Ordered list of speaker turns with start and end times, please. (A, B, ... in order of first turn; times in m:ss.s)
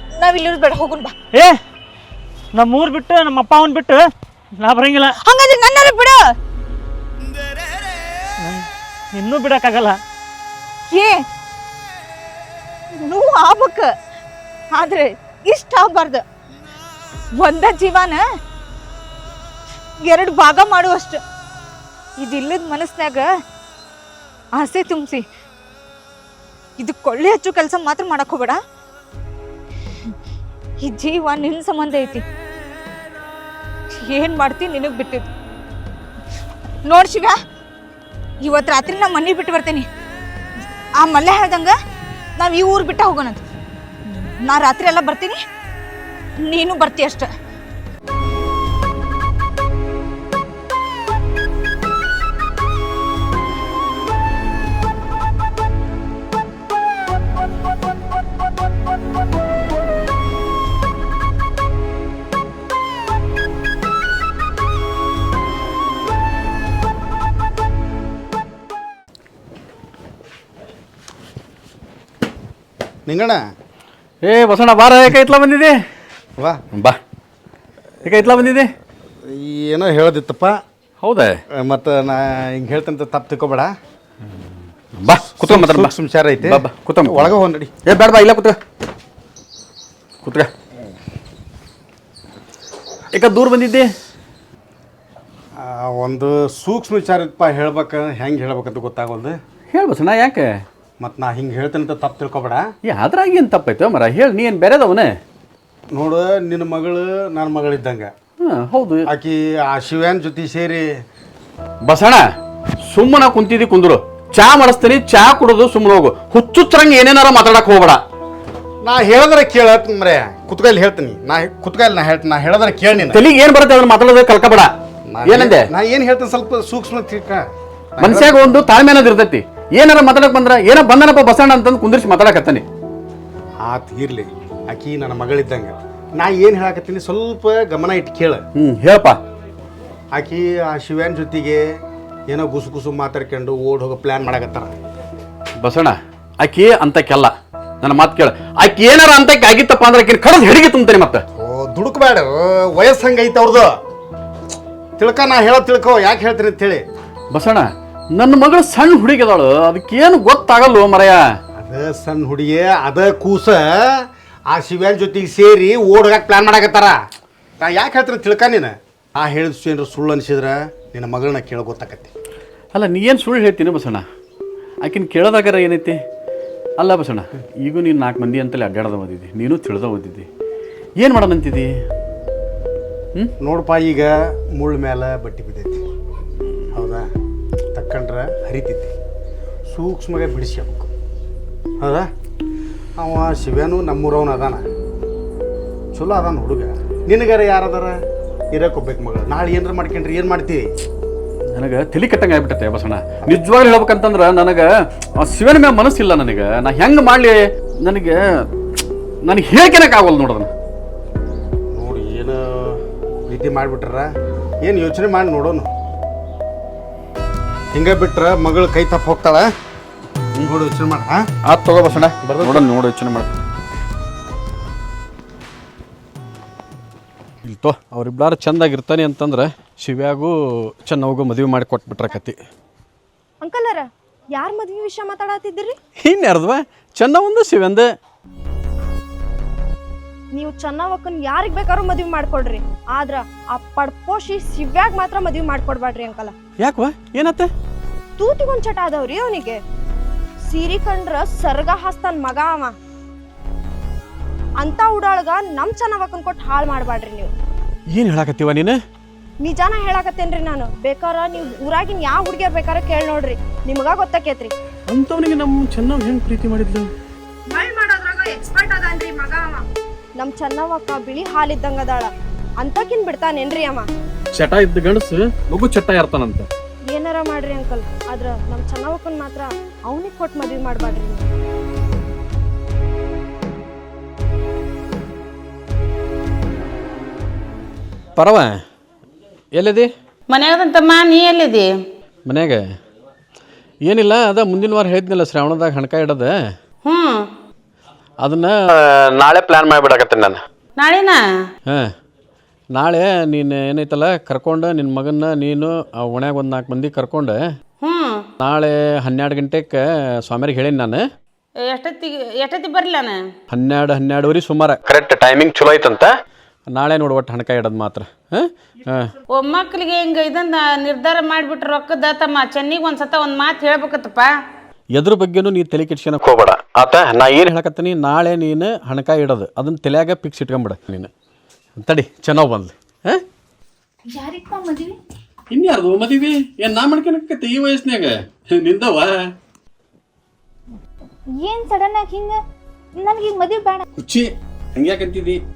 0:00.2-0:01.1 A
0:02.6-0:04.0 B
0:04.6-0:05.1 B
0:05.2-0:06.2 A
0:08.4-0:10.0 B
0:10.9-0:11.2 A
0:13.0-0:13.9 A
0:14.7-0:16.2 A
0:17.4-0:18.2 A
0:20.1-0:21.2 A
0:22.2-0:23.3 A
0:24.6-0:25.2 A
0:26.8-0:28.6 A
0:30.8-0:32.2 A
0:34.0-0:35.3 A
0:36.9-0:37.4 A
0:38.4-0:39.9 A
0:41.0-0:41.8 A
0:42.4-0:43.4 A
0:44.4-0:45.4 A
0:46.4-0:47.3 A
1:13.1-1:13.4 C
1:14.2-1:15.8 D
1:18.0-1:18.7 D
1:19.2-1:20.6 C
1:21.0-1:21.4 D
1:21.5-1:23.7 C
1:25.0-1:25.9 D
1:25.1-1:27.7 C
1:26.4-1:27.3 D
1:27.9-1:28.6 D
1:30.2-1:30.5 D
1:33.1-1:33.9 D
1:35.6-1:39.4 C
1:39.7-1:40.5 D
1:41.0-1:42.6 C
1:42.9-1:45.1 D
1:45.9-1:48.1 C
1:48.4-1:49.1 D
1:49.1-1:50.9 C
1:51.9-1:52.2 D
1:52.8-1:58.0 D
1:58.8-2:03.3 C
2:03.1-2:04.7 D
2:05.1-2:07.4 C
2:05.3-2:05.6 D
2:08.0-2:08.6 C
2:08.0-2:12.6 D
2:13.6-2:18.4 C
2:18.6-2:19.2 D
2:20.1-2:21.6 C
2:22.3-2:24.7 C
2:25.6-2:31.2 D
2:31.4-2:33.7 C
2:35.0-2:36.9 C
2:37.3-2:41.2 D
2:41.6-2:47.0 C
2:47.6-2:52.1 C
2:52.7-2:54.0 D
2:54.8-2:56.0 D
2:56.8-3:00.3 D
3:01.0-3:01.7 D
3:03.4-3:05.8 C
3:06.7-3:07.1 C
3:07.7-3:08.9 C
3:09.7-3:10.9 C
3:11.8-3:12.1 C
3:13.0-3:14.6 C
3:15.9-3:18.0 C
3:18.5-3:20.7 C
3:21.6-3:24.7 D
3:25.2-3:28.2 D
3:29.2-3:30.5 D
3:31.7-3:34.1 C
3:34.6-3:35.7 C
3:37.7-3:39.5 C
3:40.4-3:41.3 C
3:41.5-3:43.3 D
3:42.2-3:42.7 C
3:47.4-3:52.4 D
3:53.4-3:55.8 E
3:56.0-3:57.9 D
4:00.3-4:06.4 E
4:06.6-4:07.5 D
4:08.2-4:09.6 E
4:10.4-4:12.8 E
4:14.6-4:17.3 E
4:17.9-4:18.8 D
4:19.4-4:24.5 E
4:24.9-4:26.9 D
4:27.5-4:29.6 E
4:30.2-4:33.9 E
4:34.3-4:36.5 D
4:36.9-4:41.3 E
4:48.2-4:48.6 D
4:49.5-4:49.9 D
4:50.3-4:51.7 F
4:52.3-4:52.6 D
4:53.9-4:56.3 D
4:56.8-4:57.2 F
4:58.2-5:00.4 D
5:00.8-5:01.2 F
5:02.8-5:07.4 D
5:07.8-5:08.2 F
5:08.4-5:11.0 D
5:11.6-5:13.2 F
5:13.5-5:16.1 D
5:16.7-5:19.1 D
5:19.3-5:24.3 F
5:25.0-5:31.1 D
5:31.8-5:33.2 D
5:34.1-5:34.9 A
5:35.5-5:39.2 D
5:41.4-5:42.4 A
5:43.0-5:43.8 A
5:44.0-5:45.4 D